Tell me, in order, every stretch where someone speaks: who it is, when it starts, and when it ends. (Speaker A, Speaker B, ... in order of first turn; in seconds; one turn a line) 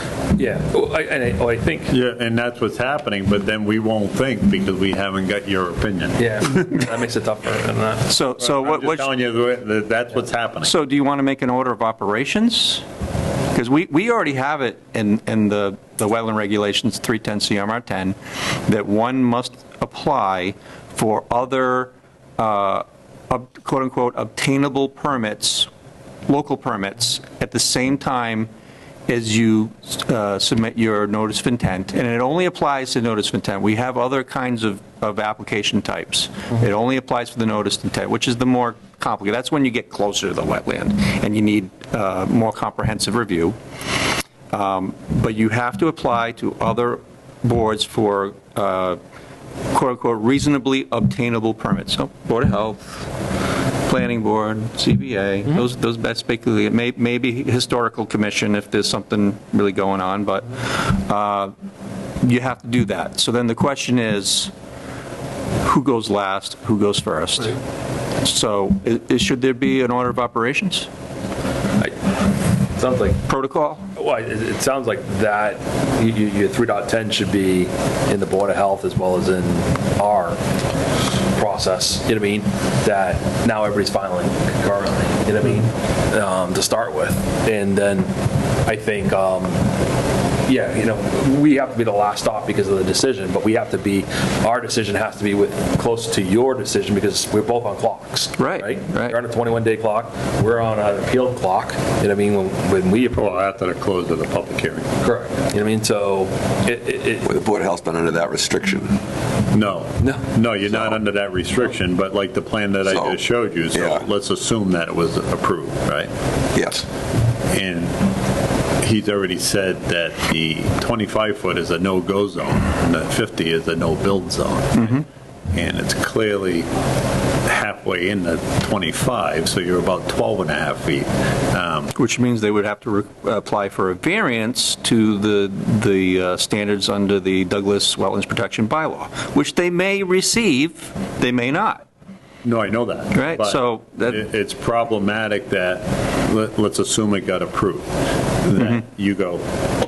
Speaker A: 0.3-1.9
Speaker B: 1.9-6.3
Speaker A: 6.2-8.1
Speaker C: 8.1-9.1
Speaker B: 8.4-10.7
Speaker C: 10.6-12.8
Speaker C: 13.5-25.7
Speaker C: 26.3-28.5
Speaker C: 29.1-43.6
Speaker C: 44.5-49.0
Speaker C: 49.7-53.1
Speaker C: 53.8-61.5
Speaker C: 62.2-64.5
Speaker C: 65.6-67.6
Speaker C: 68.2-70.9
Speaker A: 72.7-73.2
Speaker C: 73.3-73.8
Speaker A: 73.9-80.4
Speaker A: 81.3-88.1
Speaker A: 88.7-89.7
Speaker A: 90.5-103.2
Speaker C: 98.4-99.2
Speaker B: 103.1-104.9
Speaker A: 105.0-107.3
Speaker D: 107.2-109.0
Speaker B: 109.5-116.1
Speaker D: 110.7-111.0
Speaker D: 112.9-113.2
Speaker D: 113.7-114.1
Speaker D: 116.5-116.9
Speaker B: 117.5-118.0
Speaker B: 118.8-125.0
Speaker C: 124.8-125.0
Speaker B: 125.5-126.7
Speaker B: 127.4-131.9
Speaker C: 131.9-141.8
Speaker B: 142.4-147.9
Speaker C: 143.1-144.2
Speaker B: 148.4-149.4
Speaker C: 148.6-148.8